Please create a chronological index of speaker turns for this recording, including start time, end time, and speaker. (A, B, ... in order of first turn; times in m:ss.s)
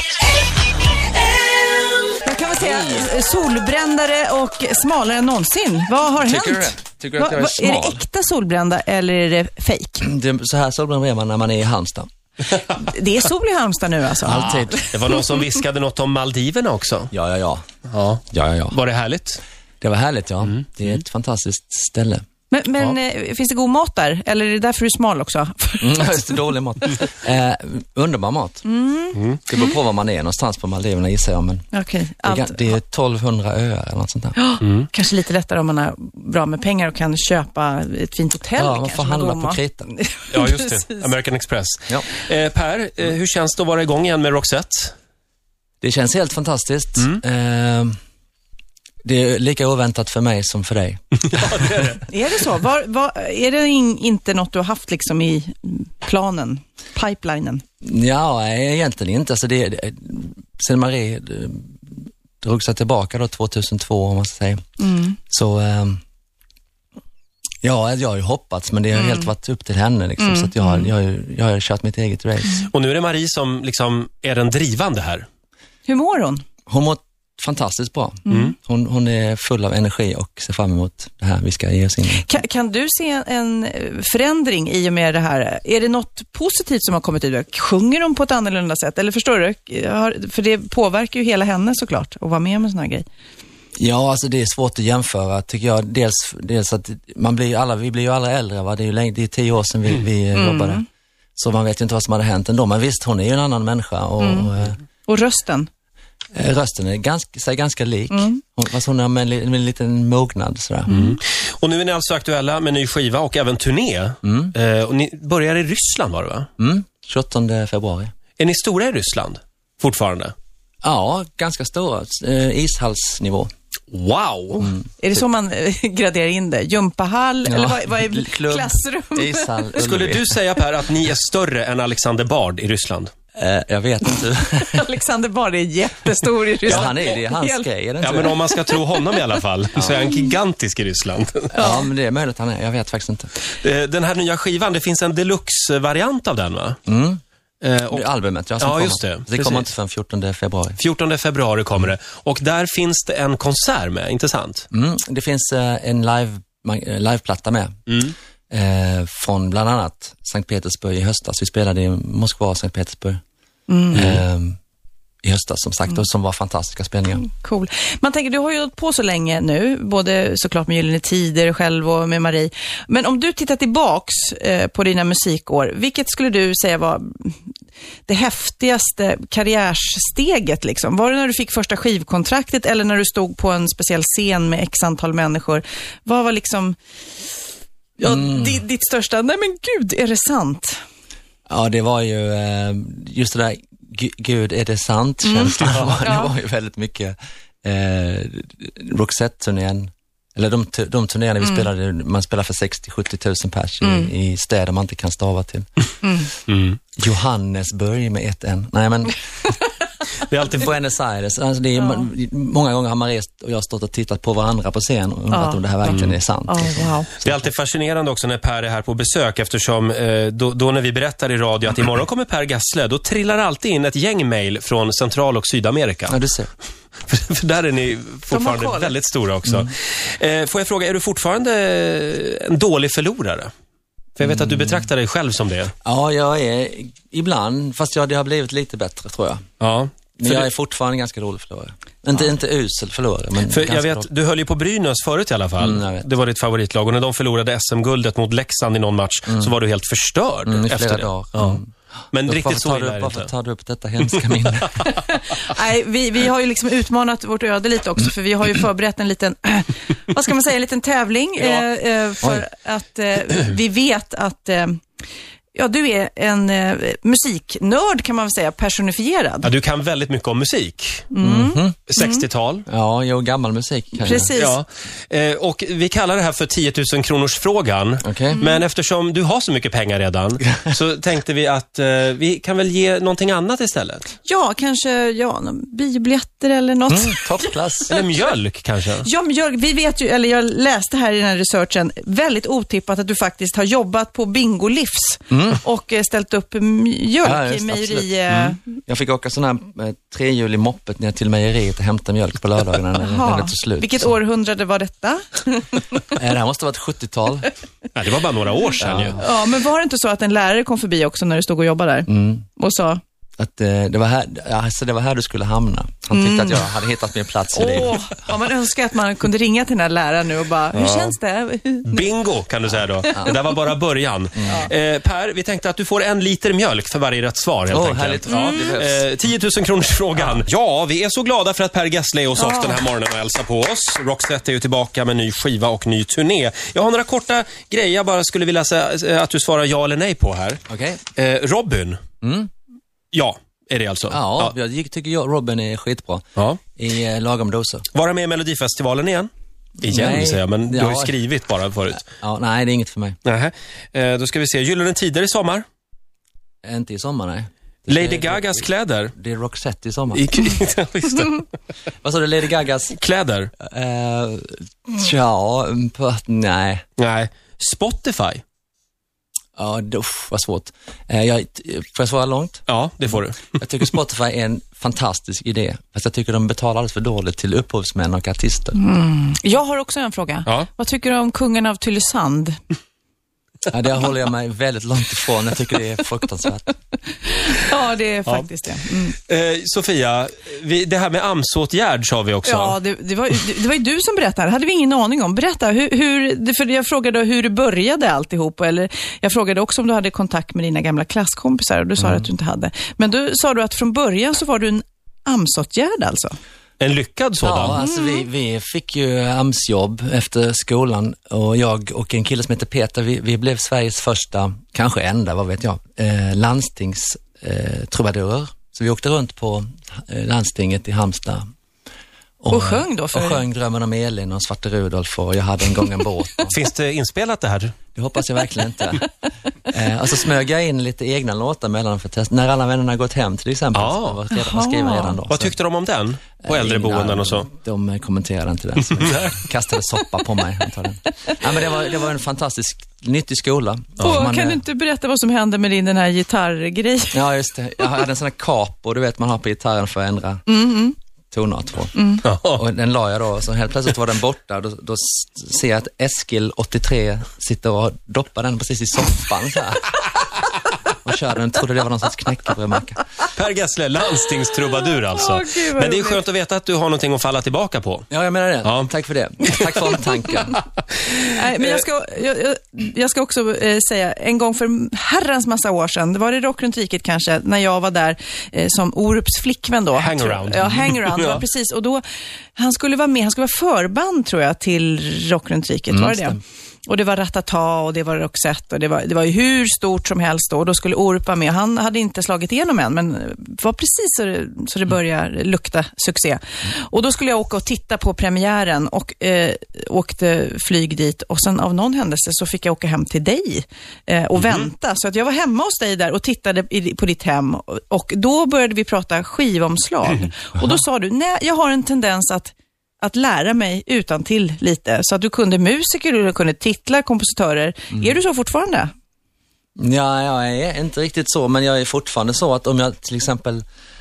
0:02.2-0:10.1 A
0:06.2-0:08.0 B
0:10.0-0:12.1 B
0:12.6-0:15.4 A
0:14.2-0:14.8 B
0:14.3-0:17.1 C
0:17.1-0:17.6 B
0:17.9-0:19.4 C
0:18.3-0:18.8 B
0:19.8-0:22.2 B
0:22.5-0:27.0 A
0:25.8-0:28.6 B
0:28.6-0:29.6 A
0:29.1-0:29.4 C
0:29.5-0:31.7 B
0:31.7-0:32.7 A
0:32.2-0:34.4 B
0:34.4-0:40.9 A
0:34.6-0:34.9 C
0:38.6-0:39.9 B
0:40.3-0:44.9 C
0:45.8-0:47.9 B
0:49.0-0:51.0 B
0:51.2-0:52.0 C
0:52.1-0:57.6 A
0:57.8-1:04.6 B
1:04.8-1:05.2 A
1:05.3-1:06.0 B
1:07.6-1:12.6 B
1:09.0-1:09.2 A
1:10.2-1:10.9 A
1:12.6-1:15.2 C
1:15.8-1:16.4 A
1:16.7-1:22.3 B
1:18.3-1:18.5 C
1:22.2-1:33.0 A
1:33.8-1:40.8 B
1:40.3-1:40.8 A
1:41.4-1:44.8 B
1:44.2-1:44.5 A
1:45.1-1:45.7 A
1:46.3-1:50.9 B
1:48.1-1:48.4 A
1:50.9-1:56.5 C
1:50.9-1:51.2 A
1:54.2-1:54.5 B
1:56.6-1:58.1 B
1:58.4-2:00.3 C
2:00.8-2:03.5 B
2:03.9-2:04.6 C
2:04.6-2:04.9 B
2:05.0-2:09.5 A
2:07.4-2:10.4 B
2:09.8-2:13.1 C
2:13.3-2:14.8 B
2:14.6-2:18.8 A
2:16.6-2:18.4 B
2:18.0-2:21.5 C
2:19.8-2:20.0 B
2:21.5-2:23.3 B
2:21.6-2:21.9 A
2:23.6-2:26.8 C
2:26.9-2:27.2 B
2:27.6-2:28.0 C
2:27.9-2:30.8 B
2:28.6-2:29.6 C
2:30.8-2:34.6 C
2:34.7-2:37.7 B
2:37.9-2:38.1 C
2:38.5-2:43.2 B
2:43.7-2:44.2 A
2:43.9-2:44.6 B
2:45.2-2:47.2 B
2:47.2-2:57.4 A
2:58.1-3:06.8 A
3:08.0-3:10.8 A
3:08.0-3:08.6 B
3:11.5-3:25.7 B
3:15.2-3:16.3 A
3:23.8-3:24.1 A
3:26.0-3:26.3 A
3:26.5-3:26.8 C
3:27.0-3:29.2 B
3:30.3-3:30.6 C
3:30.4-3:37.5 B
3:35.3-3:37.1 A
3:35.9-3:36.2 C
3:37.2-3:46.1 C
3:46.1-3:46.5 B
3:47.1-3:53.5 C
3:48.3-3:49.0 A
3:54.2-3:55.7 C
3:54.2-3:54.8 B
3:55.8-3:59.4 B
3:59.6-4:00.5 C
4:00.2-4:04.1 B
4:03.5-4:11.6 C
4:05.6-4:06.1 B
4:09.3-4:09.5 B
4:10.4-4:14.8 B
4:12.1-4:13.3 C
4:14.8-4:24.8 A
4:22.2-4:22.4 B
4:25.5-4:29.5 A
4:29.4-4:31.1 C
4:31.1-4:32.2 A
4:31.2-4:31.8 B
4:31.9-4:32.6 C
4:32.7-4:34.3 B
4:34.0-4:34.6 A
4:34.4-4:44.1 C
4:38.0-4:38.4 B
4:44.2-4:48.0 A
4:46.9-4:48.0 B
4:47.9-4:49.1 C
4:49.0-4:58.6 A
4:55.3-4:55.6 B
4:57.2-5:04.1 B
5:03.0-5:06.2 A
5:06.2-5:07.5 B
5:07.9-5:09.2 C
5:08.8-5:09.2 B
5:09.2-5:13.0 A
5:12.1-5:12.4 B
5:13.4-5:18.0 B
5:16.1-5:16.7 A
5:17.5-5:22.1 A
5:20.7-5:21.1 C
5:21.9-5:40.6 C
5:24.4-5:24.7 B
5:27.7-5:29.0 B
5:28.3-5:28.8 A
5:32.4-5:32.8 A
5:40.7-5:41.0 B
5:41.2-5:42.0 C
5:42.2-5:42.5 B
5:43.1-5:44.5 C
5:44.1-5:47.8 B
5:47.9-5:49.3 C
5:49.8-5:52.0 C
5:49.8-5:51.2 B
5:52.0-5:53.2 B
5:53.2-5:55.6 C
5:56.6-6:00.2 B
5:57.9-5:59.1 C
6:00.1-6:01.4 C
6:02.0-6:03.0 B
6:03.0-6:03.5 C
6:03.6-6:06.8 B
6:07.0-6:08.4 C
6:09.6-6:12.6 B
6:12.7-6:13.5 C
6:13.6-6:18.8 B
6:18.8-6:22.6 A
6:23.7-6:26.7 B
6:27.2-6:29.2 A
6:29.3-6:32.8 C
6:32.4-6:46.3 A
6:42.0-6:42.3 B
6:46.8-6:47.8 C
6:47.4-7:01.4 B
6:47.8-6:48.2 A
7:02.4-7:06.6 B
7:02.5-7:03.4 A
7:06.5-7:07.8 C
7:07.9-7:09.1 B
7:09.7-7:15.5 B
7:13.7-7:14.2 C
7:14.3-7:15.2 A
7:15.3-7:17.5 C
7:16.4-7:24.6 B
7:18.9-7:19.3 C
7:24.0-7:27.2 A
7:27.1-7:30.4 B
7:30.5-7:31.0 A
7:31.3-7:40.1 B
7:32.0-7:32.2 A
7:32.2-7:32.6 C
7:41.0-7:43.0 B
7:43.3-7:48.1 C
7:45.0-7:46.2 A
7:48.1-7:50.6 B
7:48.6-7:48.9 C
7:51.2-8:02.0 A
8:00.0-8:01.4 C
8:02.6-8:38.9 A
8:05.9-8:06.4 B
8:30.6-8:30.8 B
8:39.8-8:43.6 B